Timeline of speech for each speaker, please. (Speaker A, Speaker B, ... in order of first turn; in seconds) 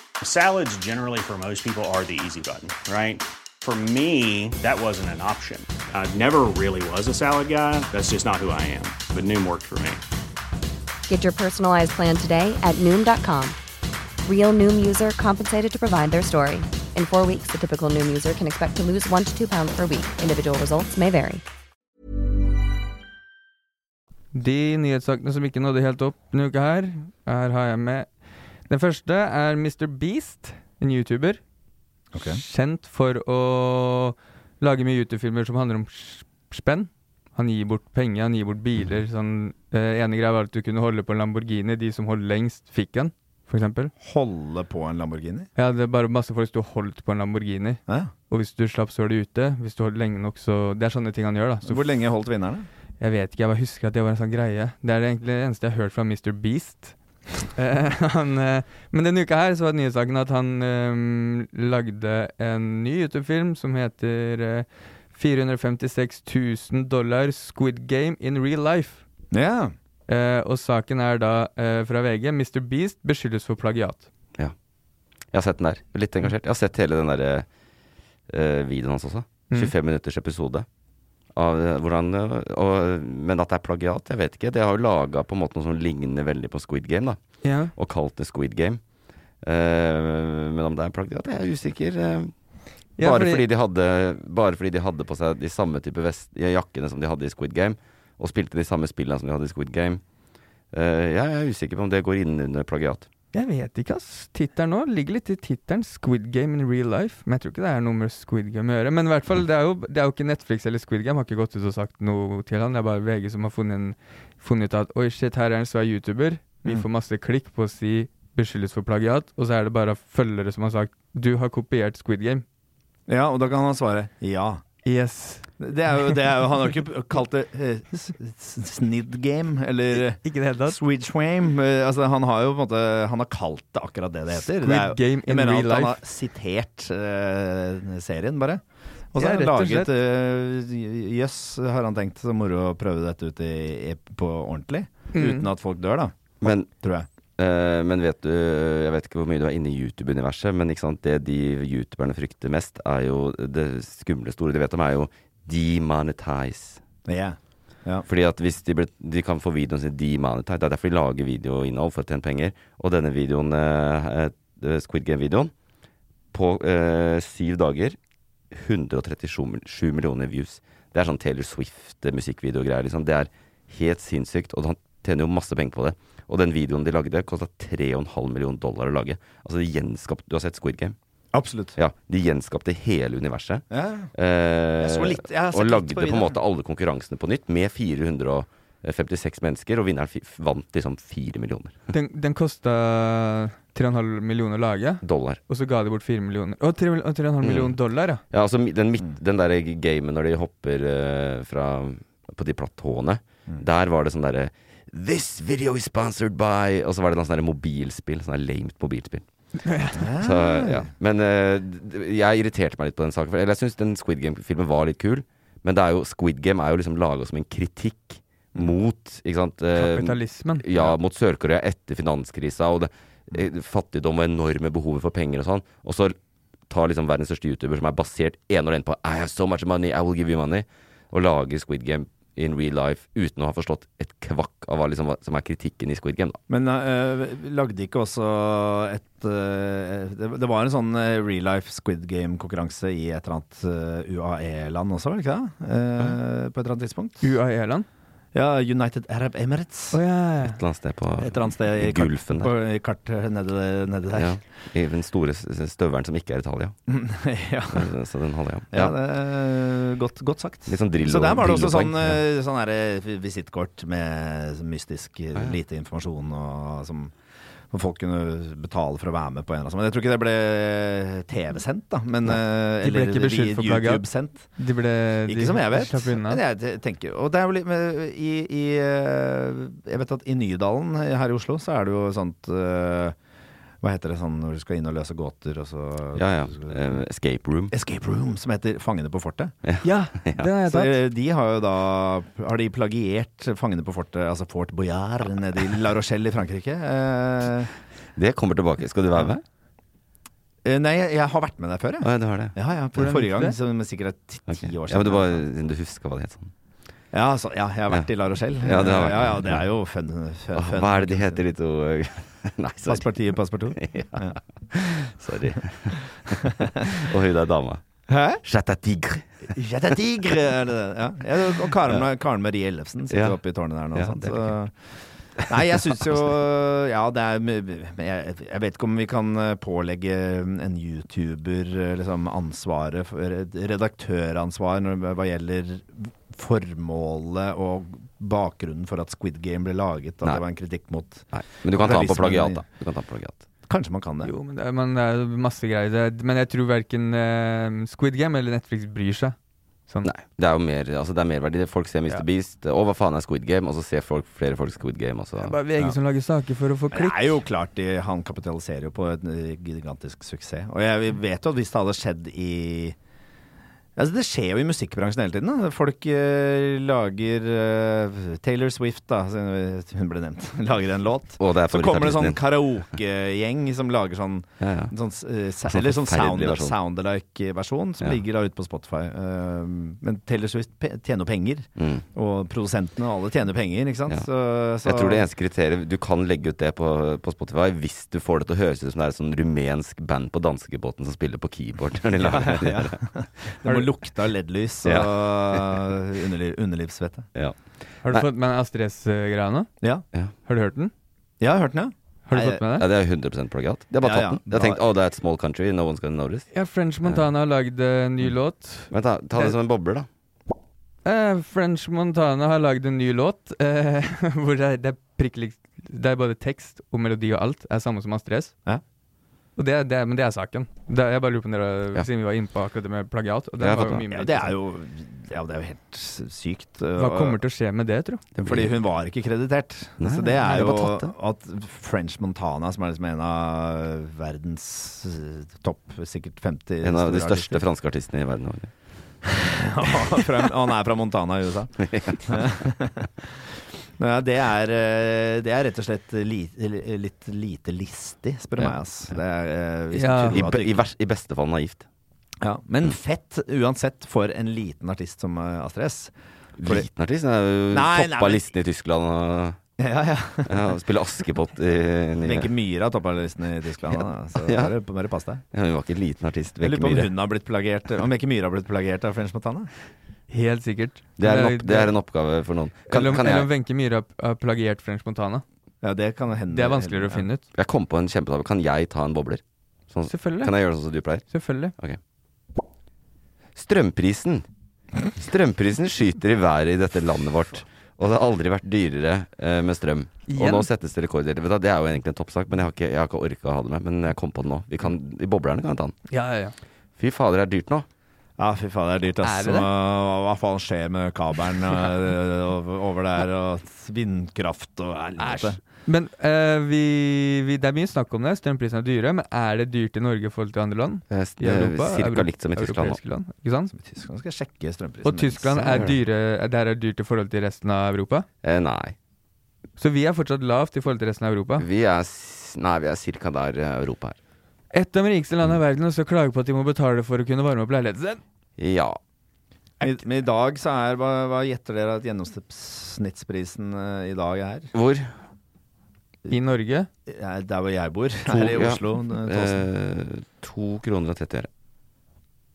Speaker A: 0.2-10.0
Speaker B: 11.1-13.6, 14.3-21.4
Speaker C: 24.3-28.1, 28.7-31.4, 32.2-43.9, 45.6-51.9, 53.0-57.0, 57.5-69.0, 70.1-74.1, 87.4-87.7, 93.0-93.4, 103.3-122.4, 124.8-125.5, 130.2-130.8, 134.4-136.0, 139.2-139.9, 145.1-145.5, 191.9-198.2, 209.7-210.0, 219.8-220.9, 247.2-247.9, 249.9-250.6, 272.3-274.0, 274.6-276.4, 289.8-290.9, 303.0-303.6, 344.2-349.4, 355.4-357.3, 398.1-399.7, 400.5-400.9, 402.3-402.9, 406.5-409.6, 411.1-418.5, 419.6-424.5, 427.0-428.2, 449.9-450.4, 470.3-471.9, 472.9-475.4, 476.5-477.4, 480.1-480.5, 481.3-481.7, 490.3-490.7, 496.1-496.6, 499.2-499.7, 505.2-513.7, 515.0-518.3, 519.8-521.6, 524.7-528.2, 536.3-536.9
Speaker D: 32.1-32.4, 44.0-45.5, 51.7-52.7, 69.3-69.7, 123.1-124.6, 125.6-138.6, 139.1-146.1, 146.8-147.1, 157.1-158.1, 181.3-181.8, 183.7-184.1, 184.8-186.4, 210.0-210.9, 236.5-247.3, 248.3-250.0, 251.2-254.3, 256.9-257.9, 258.7-267.1, 267.7-274.5, 275.3-283.1, 283.8-286.8, 287.7-289.5, 290.6-297.7, 300.6-305.4, 307.1-311.4, 312.9-314.4, 316.4-316.9, 318.1-318.4, 319.5-324.7, 325.5-342.6, 343.7-344.3, 356.9-363.0, 364.0-385.2, 392.2-397.3, 401.4-402.6, 404.0-404.8, 424.1-427.4, 428.5-437.6, 439.3-450.8, 452.4-456.1, 457.7-458.4, 459.8-460.6, 462.2-465.4, 466.6-469.7, 475.8-477.3, 498.4-505.6, 513.7-515.6, 529.8-534.7, 537.1-539.6
Speaker E: 75.3-77.5, 78.3-80.7, 81.3-87.2, 87.7-88.8, 89.4-92.3, 93.0-100.0, 100.7-103.1, 146.4-146.7, 147.4-156.8, 158.1-165.5, 166.3-168.0, 168.5-181.0, 181.8-191.8, 195.0-195.4, 197.4-197.8, 198.3-209.2, 210.2-226.1, 226.7-236.4, 250.4-252.5, 254.1-256.8, 257.7-258.9, 260.7-262.2, 286.2-287.7, 289.6-290.5, 298.2-299.4, 302.0-302.5, 304.5-306.5, 308.6-309.6, 310.6-313.1, 313.8-317.8, 318.4-319.3, 323.1-323.4, 323.9-324.5, 341.3-343.4, 350.0-355.6, 371.4-372.4, 374.6-374.9, 375.7-376.8, 381.8-382.1, 384.8-393.0, 394.8-395.8, 402.8-406.5, 408.9-410.1, 423.6-424.1, 428.4-428.7, 430.0-431.1, 436.8-438.7, 441.8-442.2, 450.3-451.9, 456.6-459.6, 460.5-462.5, 463.9-464.7, 465.5-467.1, 471.2-473.5, 477.6-481.3, 483.6-484.5, 485.2-495.9, 497.0-497.9, 511.1-513.0, 515.6-516.0, 518.4-519.0, 521.6-524.2, 528.6-529.0, 534.7-535.1, 538.3-541.5